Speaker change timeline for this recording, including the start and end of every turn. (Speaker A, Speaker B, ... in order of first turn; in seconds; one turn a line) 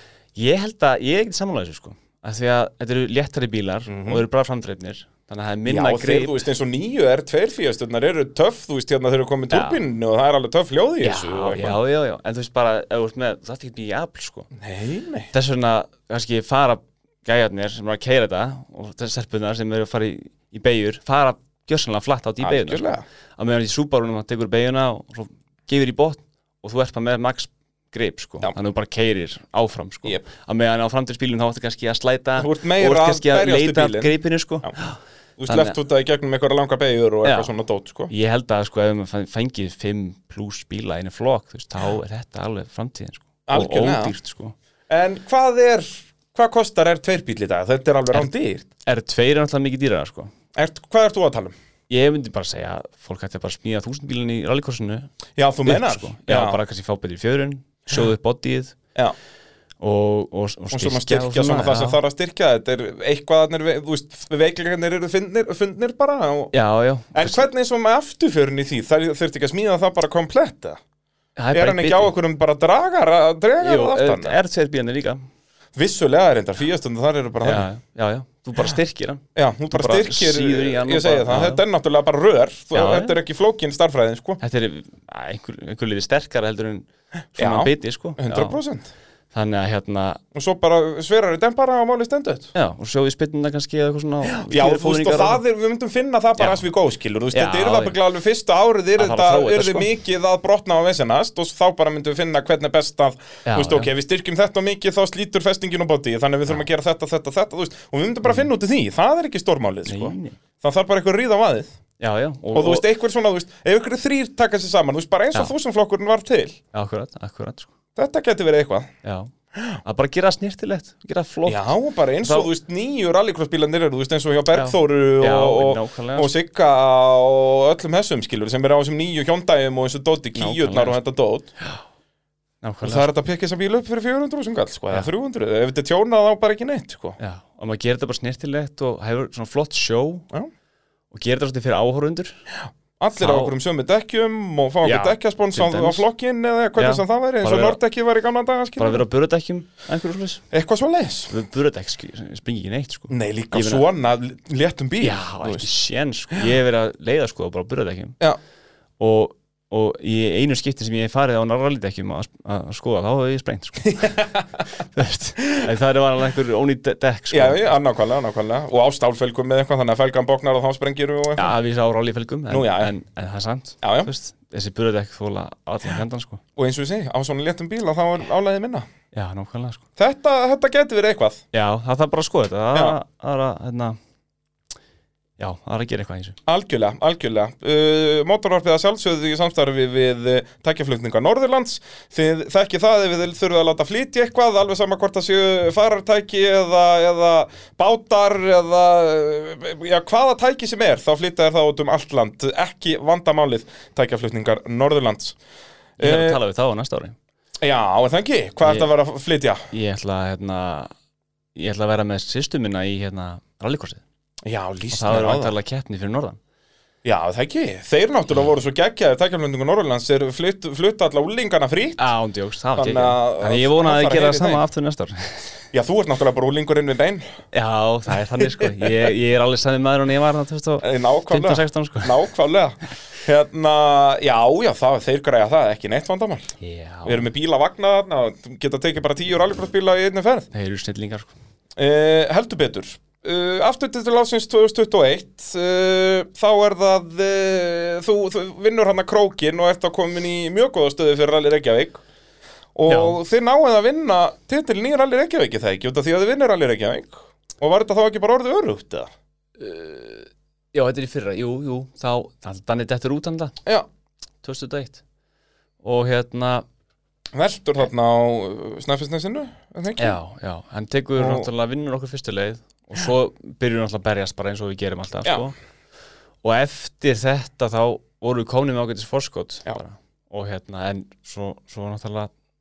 Speaker A: 0.4-6.4
Speaker B: 3.9-4.2
Speaker B: 5.7-11.8
Speaker A: 9.5-9.8
Speaker A: 11.0-14.5
Speaker B: 14.5-15.3
Speaker A: 15.3-35.8
Speaker B: 22.4-23.0
Speaker B: 32.4-34.1
Speaker B: 35.4-38.1
Speaker A: 37.2-37.5
Speaker A: 38.1-44.5
Speaker B: 43.5-44.1
Speaker B: 44.9-48.7
Speaker A: 48.9-50.3
Speaker B: 50.5-51.5
Speaker A: 51.9-55.1
Speaker B: 55.4-56.6
Speaker A: 55.6-58.8
Speaker A: 59.8-62.0
Speaker B: 60.7-66.5
Speaker A: 66.5-67.5
Speaker B: 67.1-70.8
Speaker A: 71.4-72.1
Speaker B: 71.5-74.4
Speaker A: 73.6-75.2
Speaker B: 75.8-77.7
Speaker A: 77.4-81.6
Speaker B: 79.4-84.4
Speaker A: 82.7-83.2
Speaker A: 84.4-88.6
Speaker B: 87.4-88.9
Speaker A: 89.3-90.2
Speaker B: 90.3-92.5
Speaker A: 92.5-95.4
Speaker B: 94.2-111.7
Speaker A: 96.4-96.6
Speaker A: 97.3-98.0
Speaker A: 99.0-99.9
Speaker A: 103.5-103.9
Speaker A: 109.9-110.4
Speaker A: 112.0-112.8
Speaker B: 112.5-116.6
Speaker A: 116.7-117.7
Speaker B: 118.0-118.9
Speaker A: 119.0-119.3
Speaker B: 119.6-119.8
Speaker A: 119.8-122.5
Speaker B: 121.5-131.5
Speaker A: 124.5-126.3
Speaker A: 130.3-131.0
Speaker A: 132.6-133.1
Speaker B: 132.8-137.2
Speaker A: 137.2-140.3
Speaker A: 141.1-142.4
Speaker B: 142.5-149.0
Speaker A: 143.2-143.5
Speaker A: 144.8-146.1
Speaker A: 146.8-147.8
Speaker A: 148.8-150.4
Speaker B: 150.5-151.3
Speaker A: 151.3-153.9
Speaker B: 153.1-155.7
Speaker A: 155.0-158.2
Speaker A: 159.0-164.2
Speaker B: 163.9-164.5
Speaker A: 164.8-167.8
Speaker B: 167.3-171.6
Speaker A: 171.4-176.4
Speaker B: 172.5-172.9
Speaker B: 173.8-174.1
Speaker B: 176.6-178.9
Speaker A: 179.1-179.8
Speaker B: 180.0-181.4
Speaker A: 181.5-184.0
Speaker A: 185.4-186.4
Speaker B: 186.5-205.4
Speaker B: 206.0-206.4
Speaker A: 206.0-207.2
Speaker B: 207.6-209.7
Speaker A: 209.7-210.9
Speaker A: 211.6-214.0
Speaker B: 214.4-215.5
Speaker A: 214.9-216.4
Speaker B: 217.0-222.1
Speaker A: 222.0-225.6
Speaker B: 222.8-224.6
Speaker B: 225.7-227.2
Speaker A: 227.5-232.2
Speaker B: 228.4-228.9
Speaker B: 230.8-240.5
Speaker A: 236.6-237.3
Speaker A: 240.5-241.3
Speaker B: 241.8-252.0
Speaker B: 252.8-259.1
Speaker A: 252.9-253.2
Speaker A: 259.6-263.6
Speaker A: 264.4-265.0
Speaker A: 265.8-266.6
Speaker B: 267.3-270.2
Speaker A: 270.0-275.6
Speaker B: 271.2-271.5
Speaker A: 276.4-282.3